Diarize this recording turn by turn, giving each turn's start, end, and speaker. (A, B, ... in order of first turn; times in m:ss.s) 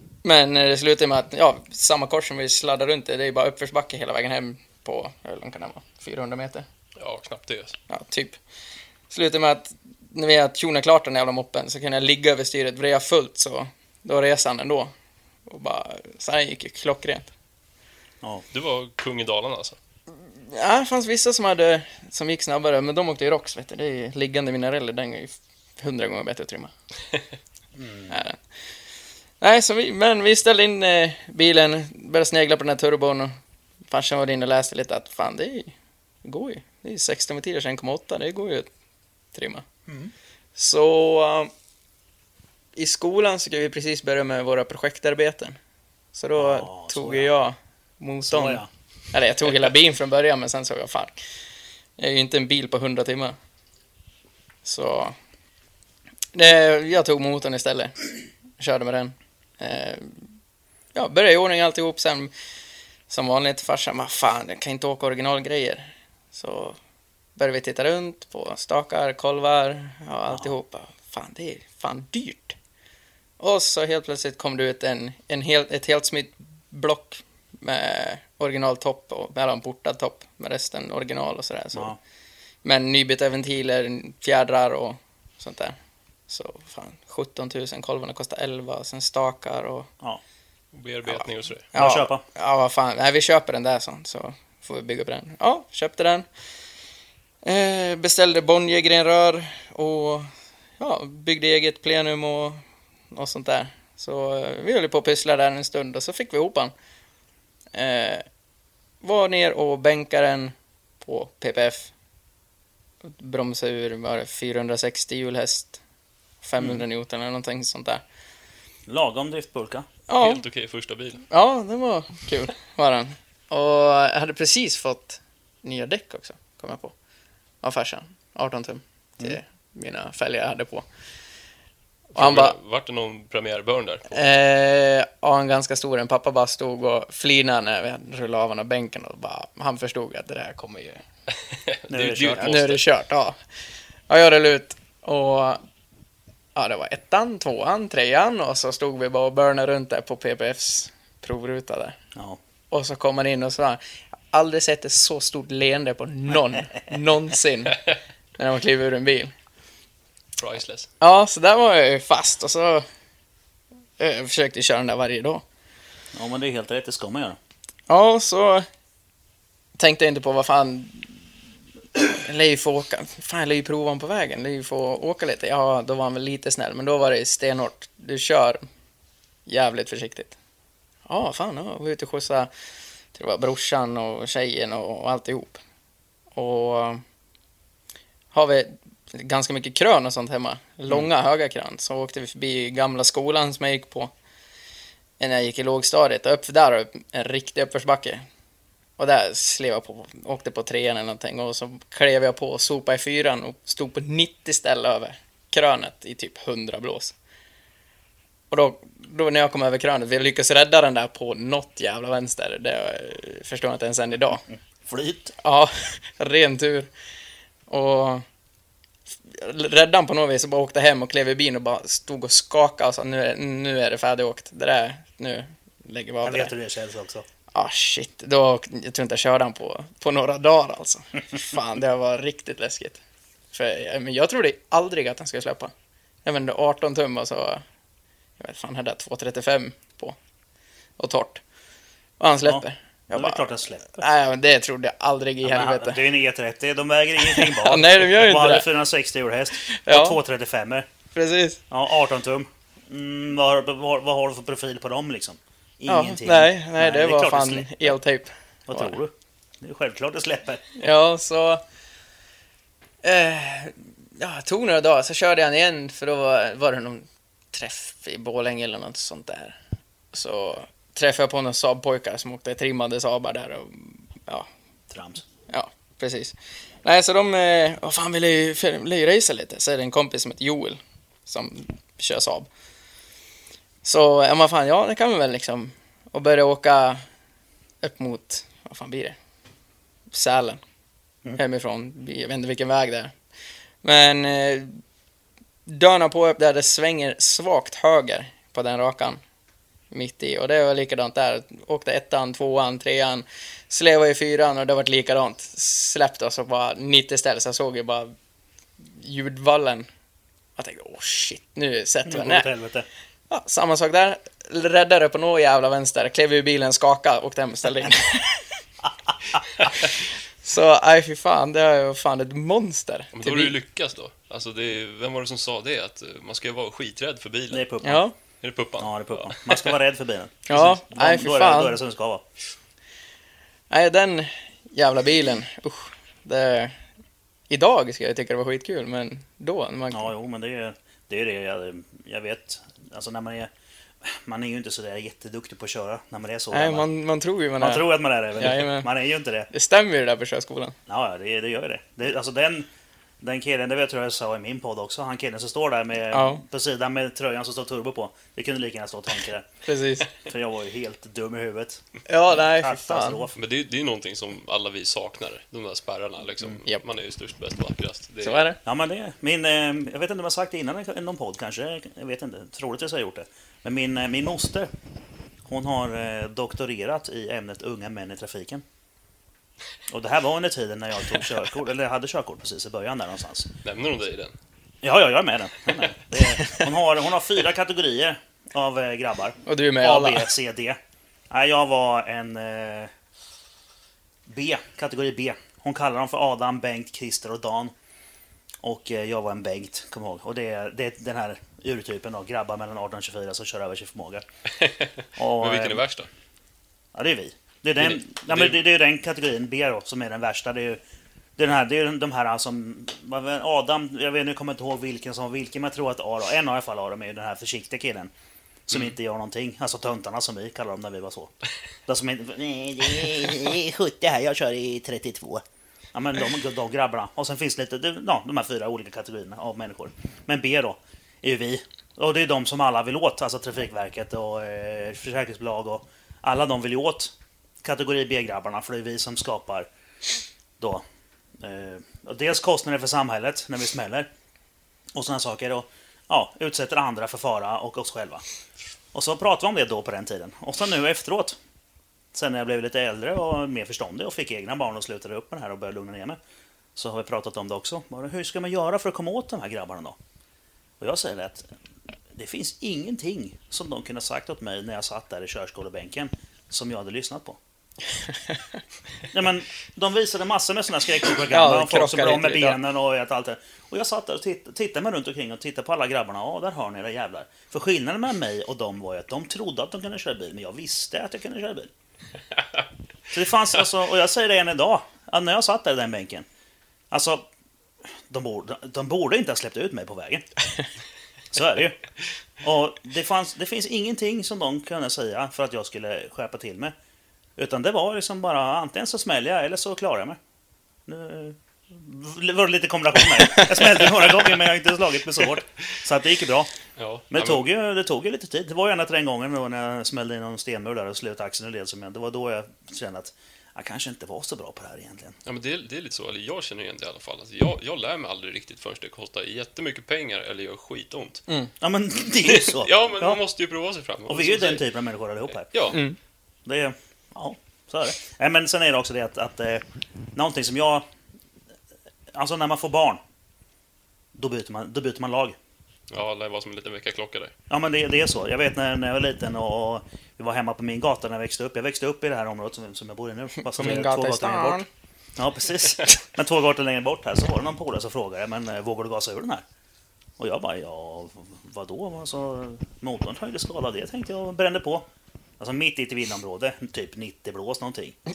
0:00.2-0:06.7 A
0:07.0-0:07.8 B
0:07.9-0:08.4 A
0:09.1-0:14.9 A
0:15.5-0:17.3 A
0:18.5-0:19.8 B
0:20.4-0:26.7 A
0:27.8-0:28.1 C
0:28.1-0:28.4 A
0:29.4-0:33.3 A
0:33.9-0:38.7 A
0:39.3-0:39.6 A
0:39.9-0:40.1 C
0:40.6-0:41.5 A
0:42.8-0:45.6 A
0:46.2-0:51.2 A
0:46.4-0:47.3 C
0:48.3-0:48.7 C
0:52.0-0:53.4 A
0:54.6-0:55.2 A
0:56.3-0:57.9 A
0:58.6-1:00.3 A
1:01.0-1:02.3 A
1:03.1-1:06.8 A
1:07.4-1:12.6 A
1:13.4-1:21.9 A
1:22.6-1:25.8 A
1:26.3-1:29.9 A
1:30.7-1:31.7 B
1:31.1-1:36.2 A
1:31.8-1:32.2 C
1:37.4-1:46.7 A
1:47.7-1:48.3 A
1:49.0-1:51.9 A
1:53.0-1:55.8 A
1:56.4-1:58.0 A
1:58.9-1:59.9 C
2:00.1-2:00.4 A
2:00.2-2:01.2 B
2:01.3-2:06.9 A
2:07.6-2:10.8 A
2:12.2-2:12.6 A
2:12.2-2:14.3 B
2:14.1-2:21.0 A
2:21.5-2:22.8 B
2:21.9-2:22.8 C
2:22.3-2:23.4 A
2:24.1-2:25.6 A
2:26.6-2:32.0 A
2:32.7-2:33.8 A
2:34.3-2:37.8 A
2:38.4-2:39.3 A
2:40.4-2:40.9 B
2:41.0-2:42.8 A
2:44.0-2:45.4 A
2:46.1-2:47.4 C
2:47.9-2:48.7 A
2:49.8-2:51.1 A
2:52.0-2:58.6 A
2:59.5-3:00.4 A
3:01.1-3:02.5 A
3:03.1-3:05.6 A
3:06.4-3:07.0 A
3:08.3-3:14.1 A
3:15.2-3:18.2 A
3:19.0-3:27.2 A
3:28.5-3:34.4 A
3:34.8-3:35.4 C
3:35.4-3:36.9 A
3:37.7-3:38.2 A
3:39.3-3:46.5 A
3:46.2-3:47.3 C
3:47.6-3:53.0 A
3:53.5-3:55.7 A
3:56.2-3:57.6 A
3:58.4-4:00.2 A
4:01.0-4:01.4 A
4:02.2-4:06.0 A
4:02.4-4:04.0 C
4:05.4-4:10.9 C
4:07.2-4:08.7 A
4:09.6-4:10.2 A
4:11.1-4:11.6 A
4:11.7-4:18.0 C
4:15.9-4:19.0 A
4:18.7-4:20.7 C
4:20.8-4:21.6 A
4:23.0-4:29.6 A
4:30.1-4:34.5 A
4:34.9-4:35.2 C
4:35.5-4:42.5 A
4:43.8-4:47.0 A
4:47.8-4:49.2 A
4:50.1-4:50.6 A
4:51.4-4:53.1 A
4:53.8-4:54.8 A
4:55.7-4:59.2 A
4:59.9-5:08.1 A
5:08.9-5:09.9 A
5:10.6-5:12.5 A
5:12.1-5:12.9 C
5:13.3-5:18.4 A
5:19.7-5:23.6 A
5:23.1-5:27.7 B
5:27.5-5:28.0 C
5:27.8-5:28.1 A
5:28.4-5:29.7 B
5:28.8-5:32.2 C
5:30.5-5:31.8 A
5:33.7-5:36.8 A
5:37.5-5:40.1 A
5:39.9-5:43.5 C
5:44.0-5:46.8 C
5:46.5-5:48.9 A
5:47.6-5:49.5 C
5:49.5-5:50.8 A
5:50.9-5:52.7 C
5:53.2-5:59.5 C
5:56.1-5:56.4 A
5:59.6-6:00.1 A
6:00.1-6:03.4 C
6:02.1-6:03.2 A
6:03.4-6:08.4 B
6:08.2-6:08.6 A
6:08.7-6:14.7 C
6:15.5-6:18.6 C
6:19.9-6:23.5 C
6:23.6-6:24.3 B
6:24.8-6:30.8 C
6:29.5-6:30.3 A
6:31.3-6:32.9 C
6:34.3-6:37.7 C
6:38.6-6:44.2 C
6:44.6-6:46.1 B
6:45.2-6:45.8 C
6:46.9-6:50.8 C
6:47.8-6:48.6 B
6:51.4-6:58.1 C
6:58.7-7:01.3 C
7:01.9-7:19.7 C
7:21.4-7:24.1 C
7:24.9-7:28.2 C
7:28.9-7:31.4 C
7:32.1-7:36.2 C
7:36.8-7:40.0 C
7:40.8-7:41.5 C
7:42.1-7:47.4 C
7:49.1-8:01.7 C
7:51.3-7:52.6 A
8:03.1-8:06.3 C
8:06.9-8:07.3 C
8:08.1-8:10.3 C
8:11.3-8:11.8 C
8:12.4-8:16.7 C
8:17.4-8:20.2 C
8:20.9-8:26.5 C
8:26.8-8:27.4 B
8:27.1-8:35.2 C
8:35.2-8:41.2 B
8:41.6-8:43.2 C
8:42.2-8:44.7 B
8:44.1-8:45.8 C
8:45.5-8:45.8 B
8:45.7-8:46.0 A
8:46.5-8:49.6 C
8:50.2-8:50.8 C
8:52.1-8:53.0 C
8:54.2-8:55.4 C
8:55.9-8:57.3 B
8:57.5-9:04.6 C
9:03.4-9:04.7 A
9:05.2-9:09.4 C
9:10.2-9:14.9 C
9:15.4-9:18.0 C